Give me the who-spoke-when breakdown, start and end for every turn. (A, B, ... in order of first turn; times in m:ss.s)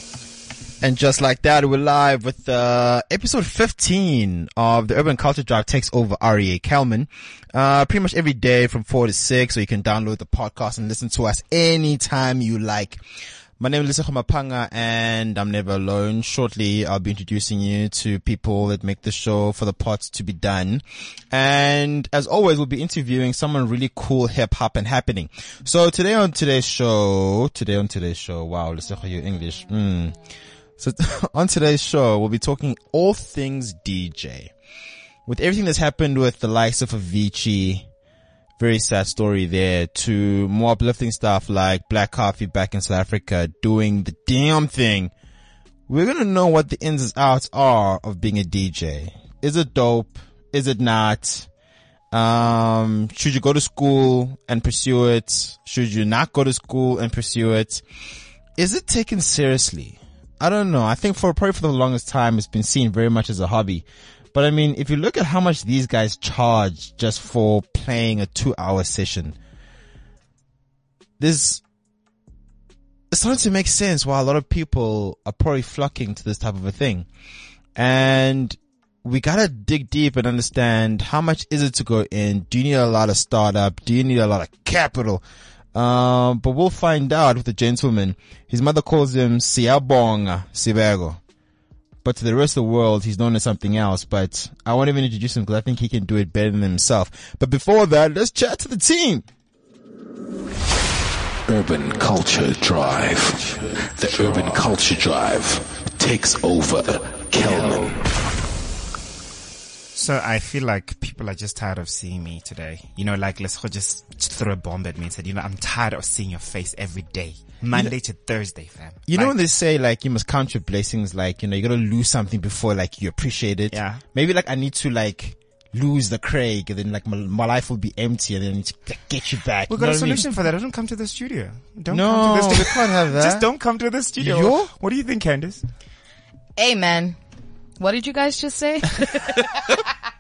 0:00.8-0:13.0 A
0:13.6-0:30.2 A
0:30.8-0:34.5 A
0:35.3-0:37.9 A
0:38.6-0:45.1 A
0:45.9-0:51.5 A
0:52.1-0:57.8 A
0:58.6-1:09.4 A
1:11.2-1:11.6 A
1:13.1-1:17.1 A
1:17.8-1:31.2 A
1:32.0-1:39.3 A
1:41.5-1:48.0 B
1:49.9-1:59.4 C
1:59.1-2:10.3 A
2:03.7-2:04.0 C
2:09.7-2:15.6 C
2:11.9-2:13.5 A
2:14.2-2:14.7 A
2:16.6-2:17.2 D
2:17.8-2:19.5 D